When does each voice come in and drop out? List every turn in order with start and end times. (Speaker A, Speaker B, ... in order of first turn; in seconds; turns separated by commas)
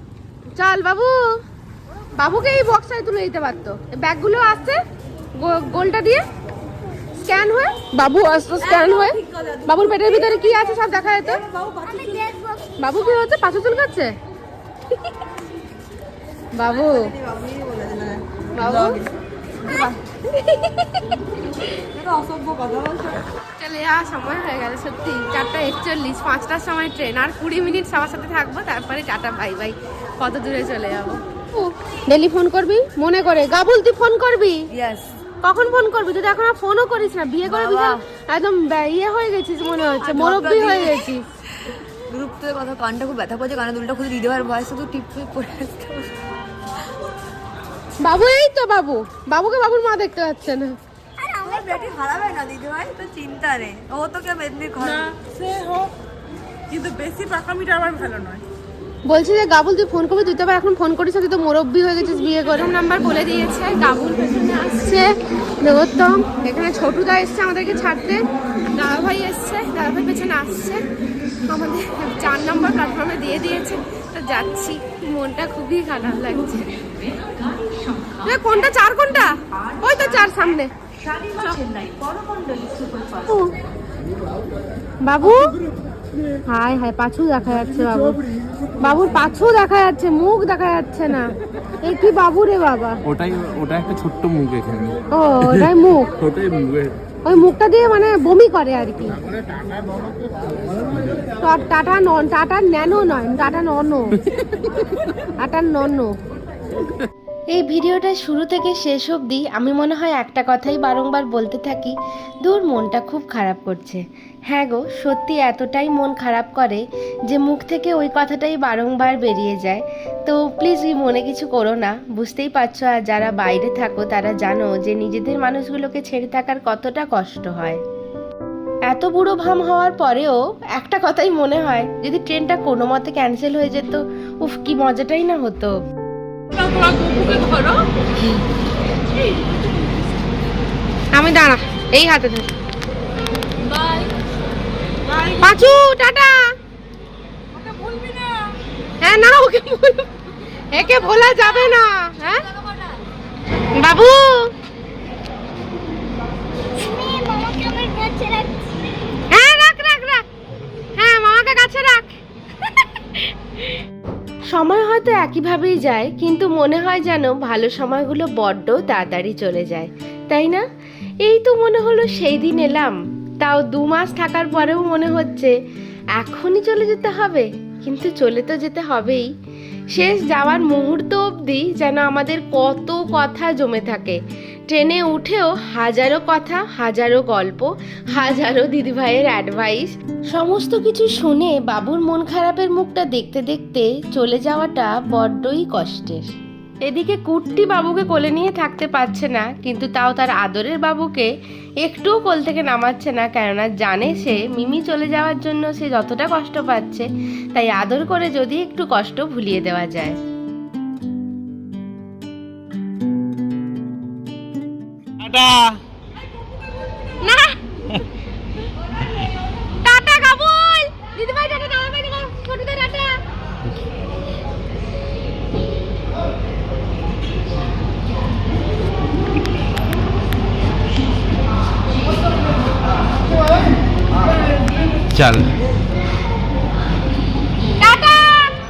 Speaker A: 0.6-1.2, Speaker A: 2.2-4.8, Speaker A: 5.4-6.2, Speaker A: 7.2-11.4, Speaker B: 11.8-13.4, Speaker A: 12.8-14.1, Speaker A: 16.6-17.1, Speaker A: 18.5-19.0, Speaker A: 19.6-21.1, Speaker C: 22.0-23.0, Speaker A: 23.6-34.6, Speaker C: 34.7-35.0, Speaker A: 35.4-41.2, Speaker C: 37.4-38.0, Speaker C: 39.8-41.0, Speaker C: 42.1-46.1, Speaker A: 48.0-50.8, Speaker B: 51.2-52.0, Speaker C: 51.5-55.0, Speaker D: 54.8-55.9, Speaker D: 56.7-58.4, Speaker A: 59.0-68.2, Speaker A: 68.7-70.8, Speaker A: 71.4-76.8, Speaker A: 78.2-80.7, Speaker A: 83.2-83.5, Speaker A: 85.0-85.5, Speaker A: 86.5-88.2, Speaker A: 88.8-91.3, Speaker A: 91.8-93.0, Speaker E: 93.1-96.9, Speaker A: 95.1-96.1, Speaker A: 97.2-99.2, Speaker A: 101.4-104.2, Speaker A: 105.4-106.1, Speaker A: 107.5-127.8, Speaker A: 128.9-135.8, Speaker D: 136.5-137.8, Speaker D: 139.2-140.2, Speaker A: 141.1-142.5, Speaker D: 145.1-145.4, Speaker A: 145.4-146.3, Speaker D: 147.6-148.2, Speaker A: 149.0-150.1, Speaker A: 150.7-152.4, Speaker A: 153.7-154.3, Speaker B: 156.7-158.9, Speaker A: 159.3-160.2, Speaker A: 161.0-162.1, Speaker A: 162.7-163.2, Speaker A: 164.5-170.6, Speaker A: 171.2-175.5, Speaker A: 176.2-179.3, Speaker A: 179.9-196.3, Speaker A: 196.8-201.3, Speaker A: 201.8-210.2, Speaker E: 215.2-215.8, Speaker A: 217.2-217.6, Speaker A: 219.8-223.2, Speaker E: 235.1-235.5, Speaker A: 237.8-238.5